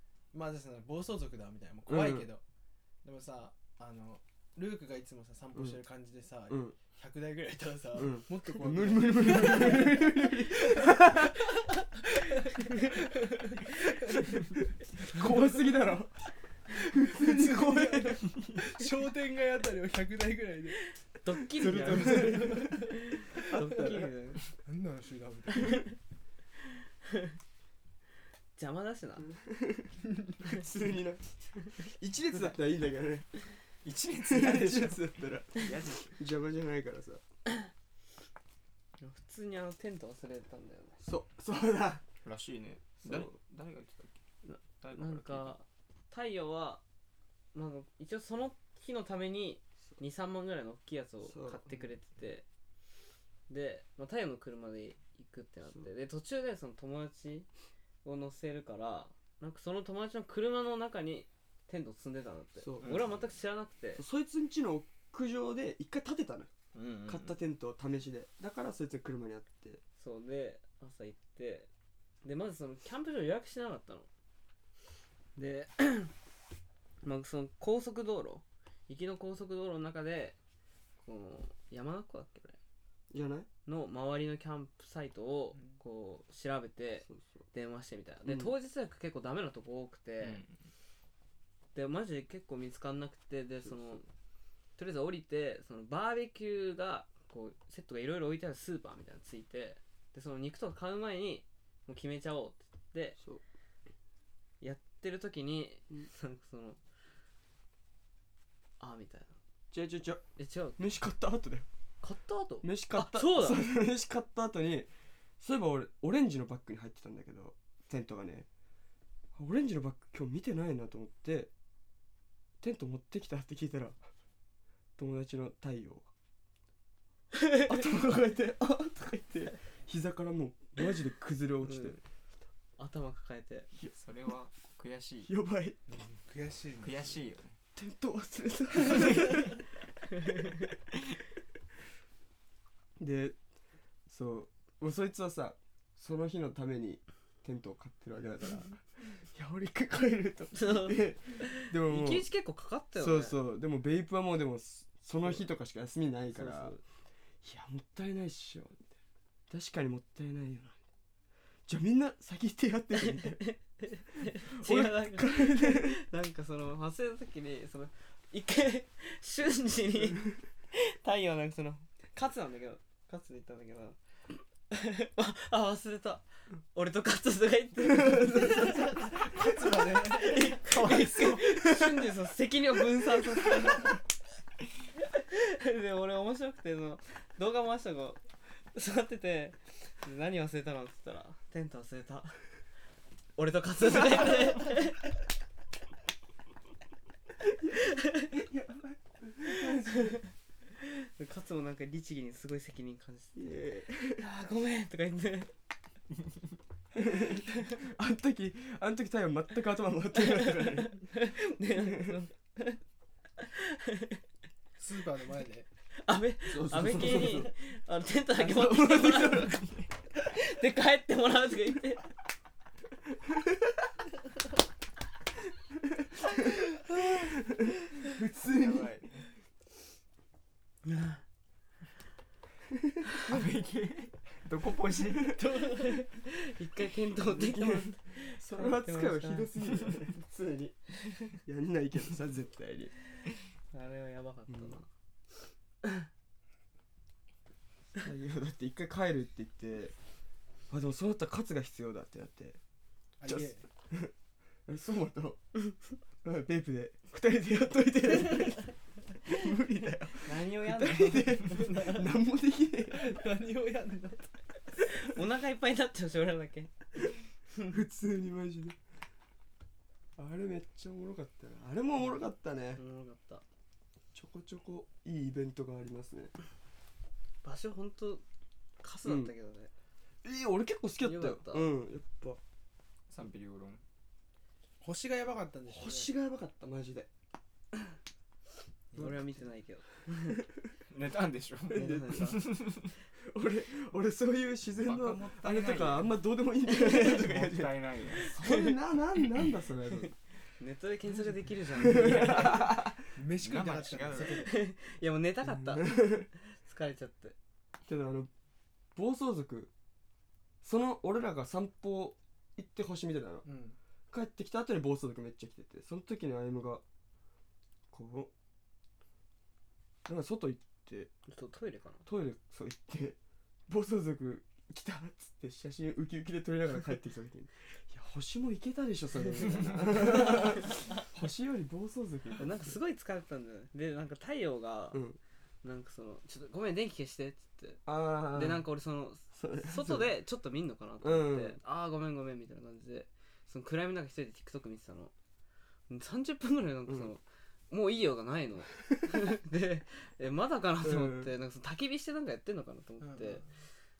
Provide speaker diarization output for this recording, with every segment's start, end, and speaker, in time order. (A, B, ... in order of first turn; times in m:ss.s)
0:00.3-0:02.4 A
0:01.9-0:02.3 B
0:03.0-0:11.3 A
0:05.5-0:05.8 B
0:06.5-0:06.7 B
0:07.9-0:11.4 B
0:12.4-0:14.3 A
0:15.0-0:18.6 B
0:15.1-0:15.4 A
0:17.0-0:20.9 A
0:21.2-0:24.4 C
0:21.5-0:24.1 B
0:21.6-0:23.8 A
0:24.6-0:25.9 A
0:28.6-0:29.3 C
0:29.3-0:33.3 B
0:33.8-0:36.2 D
0:34.2-0:37.2 B
0:39.0-0:41.0 C
0:41.0-0:42.0 B
0:42.2-0:44.2 D
0:43.0-0:43.3 B
0:44.4-0:46.8 C
0:44.8-0:45.6 D
0:47.5-0:52.4 C
0:51.3-0:51.6 B
0:53.5-0:57.5 C
0:58.0-1:04.0 C
1:02.6-1:03.0 B
1:02.8-1:03.2 D
1:04.0-1:06.5 B
1:06.7-1:07.3 D
1:07.0-1:09.8 B
1:10.0-1:11.7 C
1:12.2-1:14.1 C
1:15.4-1:16.1 C
1:17.0-1:20.4 C
1:21.0-1:22.6 C
1:23.1-1:23.5 B
1:23.6-1:30.4 C
1:28.2-1:28.5 B
1:30.2-1:30.6 D
1:31.7-1:34.1 C
1:34.8-1:43.2 C
1:44.6-1:46.8 C
1:48.8-1:49.3 C
1:49.7-1:50.2 B
1:50.4-1:50.8 C
1:50.8-1:51.6 B
1:52.0-1:53.7 C
1:52.6-1:54.9 B
1:55.4-1:58.5 B
1:59.3-2:01.5 B
2:02.6-2:04.0 B
2:05.0-2:06.1 B
2:07.6-2:12.0 B
2:11.6-2:12.0 C
2:12.8-2:13.7 C
2:13.9-2:15.3 D
2:15.2-2:15.8 B
2:15.9-2:17.2 A
2:16.8-2:17.5 D
2:17.8-2:19.6 B
2:23.0-2:23.4 B
2:24.1-2:32.3 B
2:30.5-2:33.4 C
2:32.9-2:36.8 B
2:36.3-2:36.8 C
2:37.4-2:38.9 B
2:39.5-2:40.8 B
2:41.7-2:43.5 B
2:43.0-2:54.0 C
2:44.2-2:46.0 B
2:54.7-3:04.0 C
2:57.9-2:58.6 B
2:58.5-3:00.5 A
3:01.4-3:02.1 B
3:05.0-3:12.4 C
3:13.4-3:15.1 C
3:17.7-3:18.3 C
3:18.3-3:20.2 B
3:19.4-3:20.2 C
3:20.7-3:23.5 C
3:23.3-3:24.2 B
3:24.2-3:25.5 C
3:26.9-3:31.1 B
3:30.1-3:32.8 C
3:31.8-3:32.1 B
3:33.4-3:34.2 C
3:34.8-3:35.7 A
3:36.0-3:39.6 C
3:36.4-3:37.5 B
3:38.3-3:39.8 B
3:40.2-3:42.1 C
3:43.2-3:43.8 B
3:46.4-3:48.9 B
3:48.4-3:49.3 D
3:50.8-3:51.2 C
3:53.2-3:55.4 D
3:55.4-3:59.5 C
3:57.2-4:02.9 B
4:03.7-4:04.9 C
4:04.5-4:04.8 B
4:08.0-4:09.9 B
4:10.7-4:12.6 B
4:13.2-4:13.6 A
4:13.2-4:14.1 B
4:14.6-4:15.4 B
4:16.2-4:18.7 B
4:19.2-4:23.2 B
4:20.2-4:22.1 C
4:22.9-4:24.4 A
4:24.8-4:27.0 C
4:27.6-4:28.8 B
4:30.2-4:32.8 B
4:32.8-4:33.4 C
4:34.1-4:36.3 B
4:37.4-4:38.2 C
4:38.8-4:39.7 C
4:39.0-4:39.3 B
4:40.2-4:42.4 B
4:41.0-4:41.7 C
4:43.1-4:43.8 D
4:44.8-4:46.1 A
4:45.7-4:47.1 B
4:48.9-4:49.2 A
4:48.9-4:50.4 C
4:50.9-4:52.9 D
4:51.7-4:52.4 B
4:51.7-4:52.4 C
4:53.2-5:00.1 B
4:54.8-4:56.2 D
4:56.7-4:57.1 C
4:56.7-4:58.4 D
4:58.2-4:58.7 C
5:00.6-5:02.8 C
5:01.7-5:03.0 B
5:01.9-5:02.7 D
5:03.1-5:04.6 A
5:03.4-5:04.6 D
5:04.2-5:07.4 C
5:05.4-5:06.3 B
5:07.9-5:08.3 B
5:08.9-5:09.7 B
5:10.6-5:13.4 B
5:13.4-5:13.8 A
5:14.1-5:16.8 B
5:17.9-5:18.3 B
5:20.0-5:21.1 B
5:21.3-5:22.0 C
5:22.0-5:23.2 B
5:23.7-5:32.8 B
5:32.4-5:35.0 C
5:34.9-5:35.2 B
5:35.6-5:45.1 C
5:37.8-5:38.7 B
5:39.3-5:40.1 B
5:41.0-5:41.6 B
5:45.9-5:53.5 C
5:50.8-5:51.3 B
5:53.0-5:53.5 A